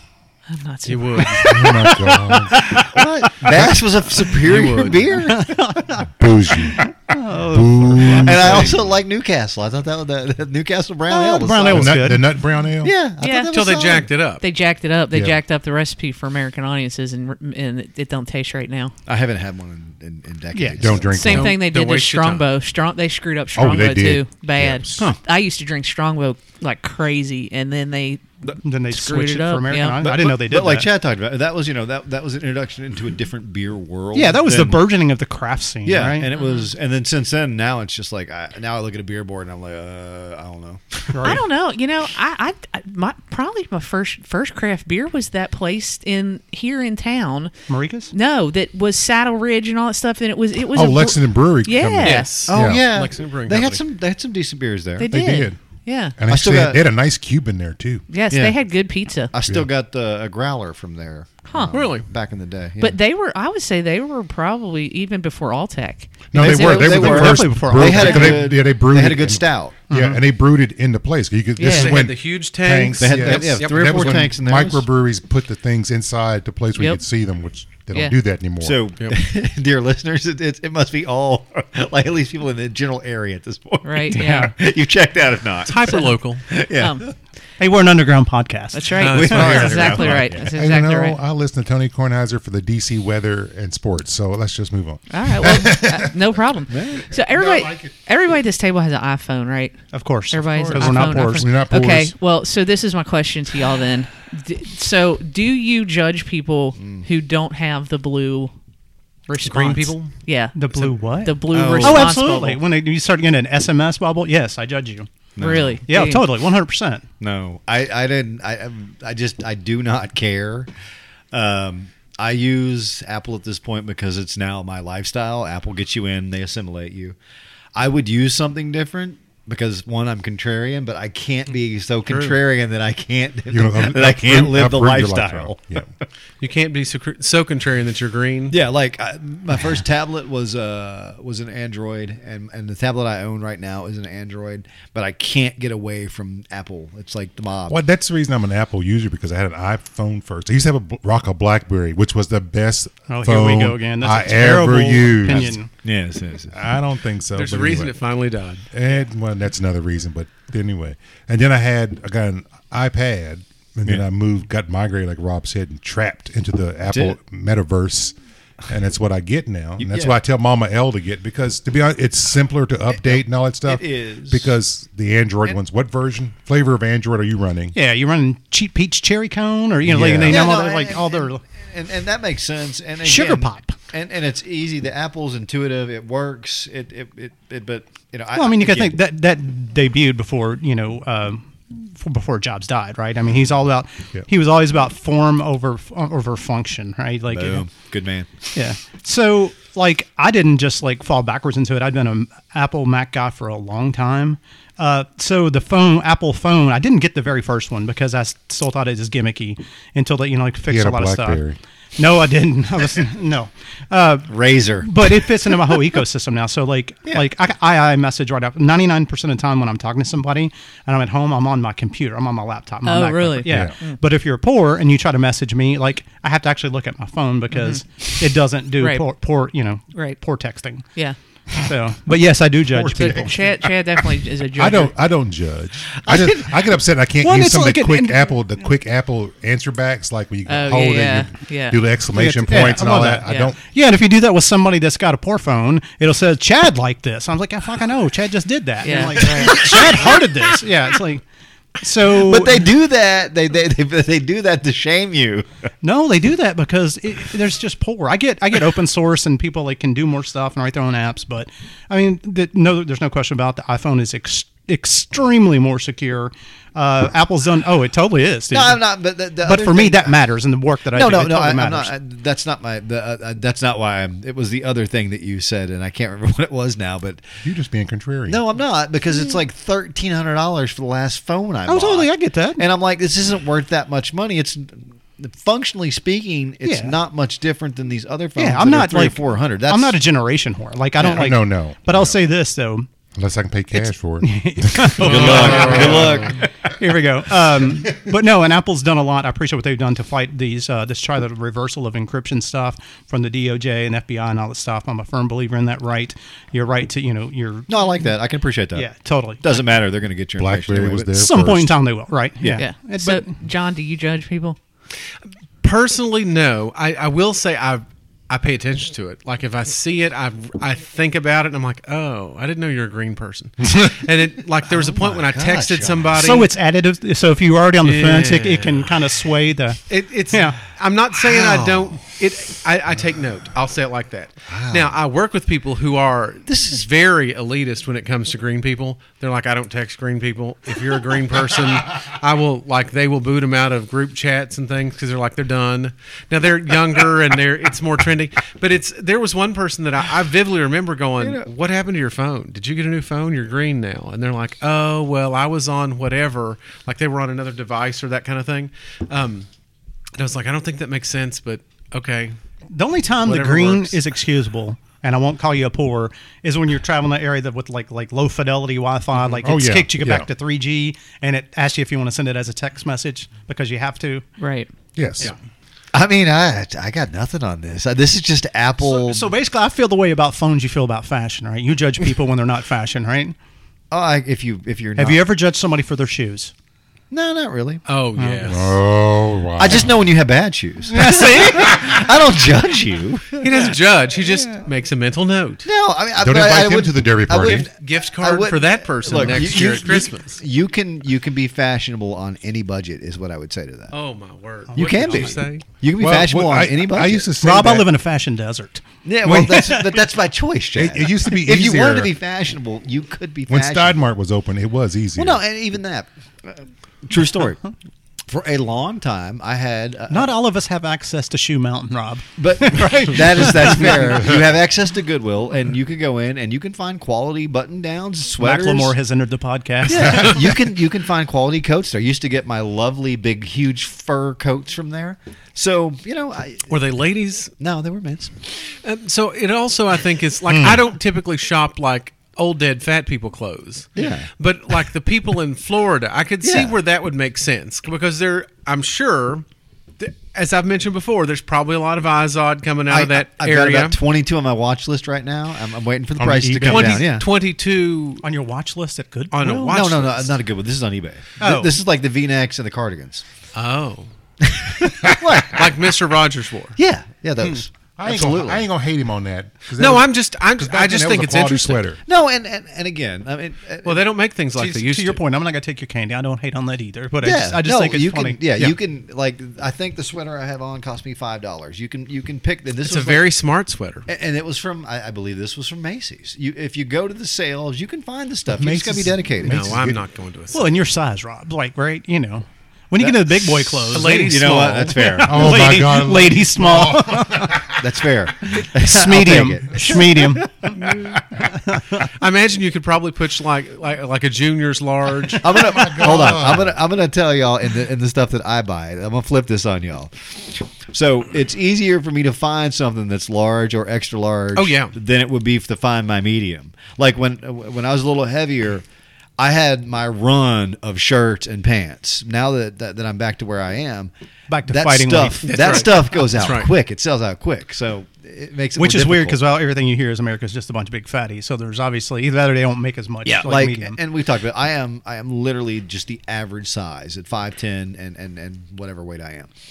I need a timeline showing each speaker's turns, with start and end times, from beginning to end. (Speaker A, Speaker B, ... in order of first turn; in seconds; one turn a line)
Speaker A: 0.5-1.7
Speaker B: 0.9-1.4
Speaker C: 1.4-2.8
Speaker D: 1.5-5.6
Speaker B: 4.3-5.1
Speaker E: 5.2-8.8
Speaker C: 6.2-6.9
Speaker C: 7.5-8.8
Speaker D: 8.1-12.1
Speaker E: 11.1-12.3
Speaker C: 11.7-12.9
Speaker D: 12.8-14.1
Speaker A: 13.2-13.5
Speaker B: 13.5-14.4
Speaker A: 14.4-18.9
Speaker D: 19.1-21.4
Speaker E: 20.5-21.0
Speaker C: 20.8-21.6
Speaker A: 21.1-30.1
Speaker B: 21.2-22.4
Speaker C: 23.6-25.1
Speaker E: 28.6-30.9
Speaker D: 30.0-34.9
Speaker E: 34.1-36.3
Speaker D: 35.9-41.4
Speaker A: 36.3-36.7
Speaker E: 41.1-41.4
Speaker A: 41.2-47.5
Speaker E: 47.7-48.1
Speaker A: 48.1-52.3
Speaker C: 50.7-52.9
Speaker B: 52.0-53.8
Speaker D: 52.5-55.1
Speaker A: 55.0-56.1
Speaker C: 55.1-55.6
Speaker C: 56.2-58.0
Speaker D: 56.3-56.8
Speaker A: 58.1-59.3
Speaker D: 58.3-58.6
Speaker D: 59.3-63.0
Speaker A: 61.5-61.9
Speaker B: 61.7-62.1
Speaker A: 62.8-67.3
Speaker C: 66.3-78.8
Speaker D: 66.3-69.8
Speaker E: 66.5-68.4
Speaker A: 67.9-68.4
Speaker E: 69.9-70.2
Speaker A: 71.6-72.0
Speaker B: 71.6-74.0
Speaker D: 73.0-74.8
Speaker A: 76.8-77.0
Speaker D: 78.6-87.1
Speaker A: 83.8-84.5
Speaker E: 84.1-84.5
Speaker B: 85.6-86.4
Speaker A: 85.9-86.2
Speaker A: 86.7-87.1
Speaker E: 87.6-89.7
Speaker A: 88.7-91.2
Speaker B: 89.0-90.2
Speaker D: 89.1-90.5
Speaker C: 90.2-96.1
Speaker A: 95.1-108.5
Speaker D: 96.7-97.1
Speaker C: 97.1-97.9
Speaker E: 99.9-101.5
Speaker C: 100.7-102.1
Speaker D: 106.8-107.1
Speaker A: 109.3-112.6
Speaker B: 109.4-110.1
Speaker E: 110.5-115.1
Speaker B: 111.5-112.0
Speaker D: 115.4-115.8
Speaker A: 115.4-116.3
Speaker E: 115.8-117.0
Speaker D: 117.2-120.7
Speaker D: 121.3-127.2
Speaker D: 127.7-135.8
Speaker B: 132.1-132.4
Speaker C: 133.5-135.9
Speaker B: 136.4-138.6
Speaker D: 138.5-147.8
Speaker C: 147.7-155.6
Speaker E: 153.1-155.7
Speaker D: 155.8-156.6
Speaker C: 156.5-157.9
Speaker B: 157.3-158.6
Speaker C: 158.7-168.1
Speaker D: 166.9-167.2
Speaker C: 168.7-177.7
Speaker D: 169.8-170.2
Speaker D: 172.9-174.5
Speaker E: 177.7-181.4
Speaker C: 179.8-180.5
Speaker D: 180.2-188.9
Speaker E: 183.0-183.8
Speaker E: 188.3-197.6
Speaker D: 197.3-198.3
Speaker E: 198.5-211.4
Speaker C: 210.7-211.6
Speaker E: 211.9-214.3
Speaker D: 214.3-215.5
Speaker E: 214.8-233.3
Speaker A: 222.8-224.0
Speaker C: 223.4-223.7
Speaker A: 227.5-227.8
Speaker A: 228.8-229.1
Speaker A: 229.9-230.2
Speaker C: 232.7-233.4
Speaker A: 232.9-234.9
Speaker C: 234.6-243.6
Speaker D: 236.0-236.6
Speaker E: 237.2-238.2
Speaker A: 240.5-241.8
Speaker E: 242.1-251.2
Speaker A: 243.2-243.5
Speaker A: 248.8-249.7
Speaker E: 251.8-252.7
Speaker D: 252.2-255.5
Speaker E: 255.8-268.8
Speaker D: 268.5-270.2
Speaker E: 269.4-271.9
Speaker D: 270.9-277.3
Speaker C: 277.4-278.4
Speaker D: 278.3-290.0
Speaker E: 281.6-282.6
Speaker E: 286.6-287.0
Speaker E: 288.4-292.9
Speaker C: 291.1-292.2
Speaker C: 293.1-296.3
Speaker E: 294.2-307.7
Speaker D: 295.0-296.5
Speaker B: 295.0-296.3
Speaker D: 307.7-311.1
Speaker E: 308.7-309.6
Speaker C: 310.4-311.8
Speaker E: 311.1-313.3
Speaker A: 312.6-314.6
Speaker B: 315.6-326.5
Speaker D: 324.7-326.1
Speaker E: 326.1-330.6
Speaker B: 327.8-328.9
Speaker B: 329.9-359.5
Speaker D: 331.2-332.0
Speaker D: 334.5-334.9
Speaker D: 336.5-336.9
Speaker D: 351.2-351.5
Speaker B: 360.1-362.4
Speaker E: 362.7-374.3
Speaker B: 363.2-364.0
Speaker C: 369.4-370.3
Speaker A: 374.4-374.7
Speaker C: 374.9-375.3
Speaker D: 375.9-379.3
Speaker E: 378.8-383.3
Speaker D: 383.9-385.2
Speaker E: 385.0-386.5
Speaker D: 387.1-387.8
Speaker B: 387.9-388.7
Speaker E: 388.1-388.6
Speaker C: 388.5-390.0
Speaker D: 389.6-394.6
Speaker E: 390.9-391.8
Speaker B: 393.4-395.7
Speaker D: 395.6-403.9
Speaker C: 396.2-397.7
Speaker B: 397.4-400.4
Speaker B: 403.9-405.6
Speaker E: 404.7-405.4
Speaker D: 404.8-407.3
Speaker C: 405.9-407.9
Speaker E: 407.4-410.0
Speaker D: 409.1-414.0
Speaker C: 410.7-412.1
Speaker C: 413.5-415.4
Speaker D: 415.1-417.6
Speaker D: 418.3-420.3
Speaker E: 420.1-424.3
Speaker D: 422.4-428.9
Speaker E: 428.4-430.6
Speaker D: 429.9-436.7
Speaker B: 436.7-437.5
Speaker D: 437.6-438.4
Speaker B: 438.8-449.4
Speaker C: 440.5-440.8
Speaker D: 443.9-444.3
Speaker D: 446.4-446.7
Speaker B: 450.0-454.0
Speaker D: 452.9-457.3
Speaker C: 456.2-457.0
Speaker B: 456.6-458.2
Speaker E: 458.2-459.8
Speaker B: 459.3-460.4
Speaker D: 459.6-463.2
Speaker E: 461.4-461.7
Speaker B: 463.5-464.1
Speaker D: 464.4-465.9
Speaker B: 465.5-466.8
Speaker D: 466.8-468.6
Speaker C: 468.0-472.0
Speaker B: 469.8-471.8
Speaker D: 472.1-474.1
Speaker B: 473.8-475.2
Speaker E: 474.6-478.8
Speaker D: 477.2-483.3
Speaker B: 482.8-484.1
Speaker D: 484.1-489.6
Speaker C: 488.5-490.0
Speaker B: 489.4-490.6
Speaker E: 490.5-497.7
Speaker D: 493.0-495.6
Speaker B: 493.9-495.3
Speaker C: 495.3-497.8
Speaker D: 497.8-501.2
Speaker E: 498.8-502.1
Speaker B: 502.1-505.8
Speaker D: 505.4-518.8
Speaker C: 505.6-506.8
Speaker B: 514.5-514.9
Speaker D: 519.4-524.1
Speaker E: 524.5-525.8
Speaker D: 524.6-529.4
Speaker B: 525.4-526.7
Speaker E: 528.8-534.0
Speaker D: 533.2-539.5